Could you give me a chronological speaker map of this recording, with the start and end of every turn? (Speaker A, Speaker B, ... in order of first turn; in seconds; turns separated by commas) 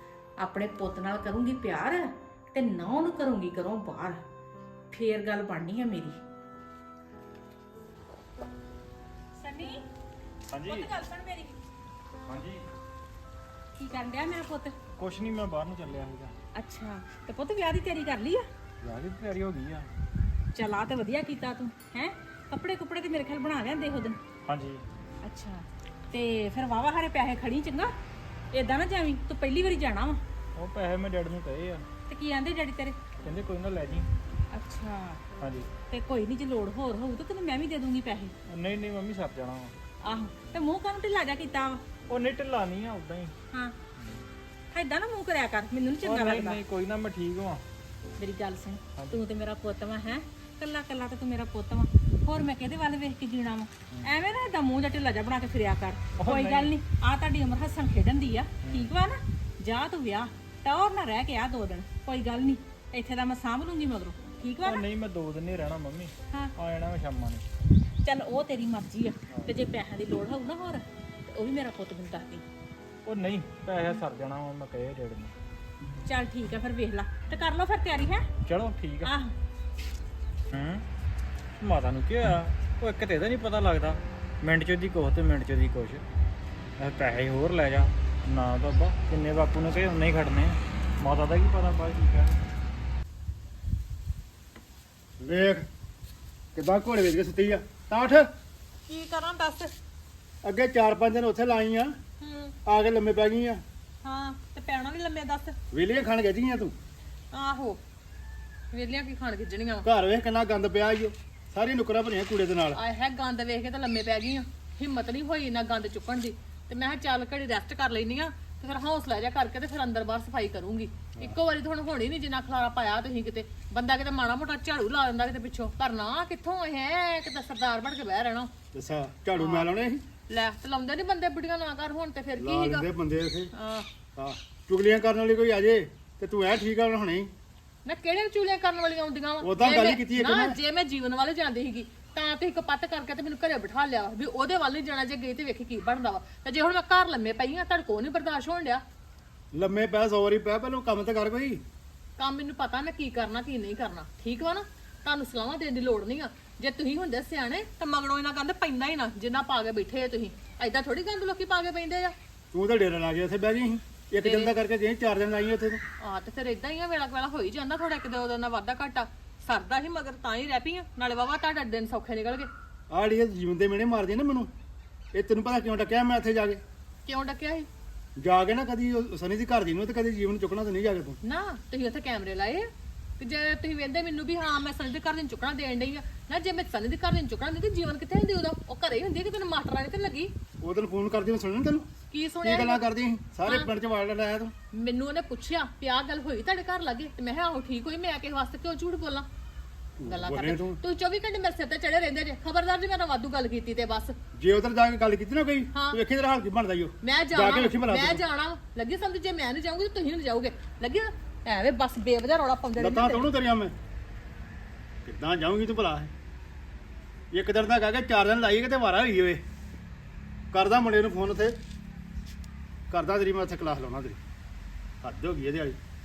Speaker A: 0.4-4.2, Speaker A: 4.9-6.2, Speaker A: 9.4-9.8, Speaker B: 10.5-10.9, Speaker A: 10.6-11.6, Speaker B: 12.2-12.6, Speaker A: 13.8-14.7, Speaker B: 15.0-16.3, Speaker A: 16.5-18.5, Speaker B: 18.8-19.9, Speaker A: 20.5-24.2, Speaker B: 24.4-24.8, Speaker A: 25.2-27.9, Speaker A: 28.5-30.2, Speaker B: 30.6-31.9, Speaker A: 32.1-33.0, Speaker B: 33.2-34.1, Speaker A: 34.5-35.2, Speaker B: 35.4-35.7, Speaker A: 35.9-38.3, Speaker B: 38.5-39.7, Speaker A: 40.0-41.8, Speaker B: 42.1-43.3, Speaker B: 44.0-44.2, Speaker A: 44.7-46.6, Speaker B: 46.0-47.6, Speaker A: 48.2-64.8, Speaker B: 56.2-56.7, Speaker B: 58.6-58.9, Speaker B: 64.6-67.5, Speaker A: 68.0-72.5, Speaker B: 69.3-69.6, Speaker B: 73.0-75.3, Speaker A: 76.0-78.2, Speaker B: 78.4-79.1, Speaker A: 79.0-79.3, Speaker B: 80.5-80.8, Speaker B: 81.6-86.0, Speaker B: 86.8-92.5, Speaker C: 95.2-95.7, Speaker C: 96.5-98.3, Speaker D: 98.8-99.7, Speaker C: 100.4-101.9, Speaker D: 102.2-102.5, Speaker C: 102.6-103.6, Speaker D: 104.0-105.5, Speaker C: 105.7-106.7, Speaker D: 107.3-107.8, Speaker D: 108.7-109.8, Speaker C: 109.8-112.8, Speaker D: 112.7-128.5, Speaker C: 121.1-121.4, Speaker C: 128.7-130.0, Speaker D: 129.3-129.7, Speaker D: 130.3-132.9, Speaker C: 132.3-133.5, Speaker D: 133.5-133.9, Speaker C: 134.2-137.3, Speaker D: 137.8-148.8, Speaker C: 139.4-140.6, Speaker C: 149.5-151.6, Speaker D: 152.2-162.1, Speaker C: 162.5-165.8, Speaker D: 164.2-164.5, Speaker D: 166.0-172.5, Speaker C: 172.9-174.5, Speaker C: 175.1-176.6, Speaker D: 177.1-177.7, Speaker C: 178.2-181.2, Speaker D: 181.2-182.7, Speaker D: 183.2-190.3, Speaker C: 190.6-191.9, Speaker D: 192.1-192.9, Speaker C: 192.4-194.5, Speaker D: 193.4-193.7, Speaker D: 194.7-199.2, Speaker C: 200.0-200.8, Speaker D: 200.1-204.1, Speaker C: 204.3-208.2, Speaker D: 205.7-206.0, Speaker D: 207.0-213.3, Speaker C: 212.8-213.7, Speaker C: 215.1-216.1, Speaker C: 217.3-219.4, Speaker C: 220.5-221.6, Speaker C: 222.9-224.2, Speaker C: 225.0-225.8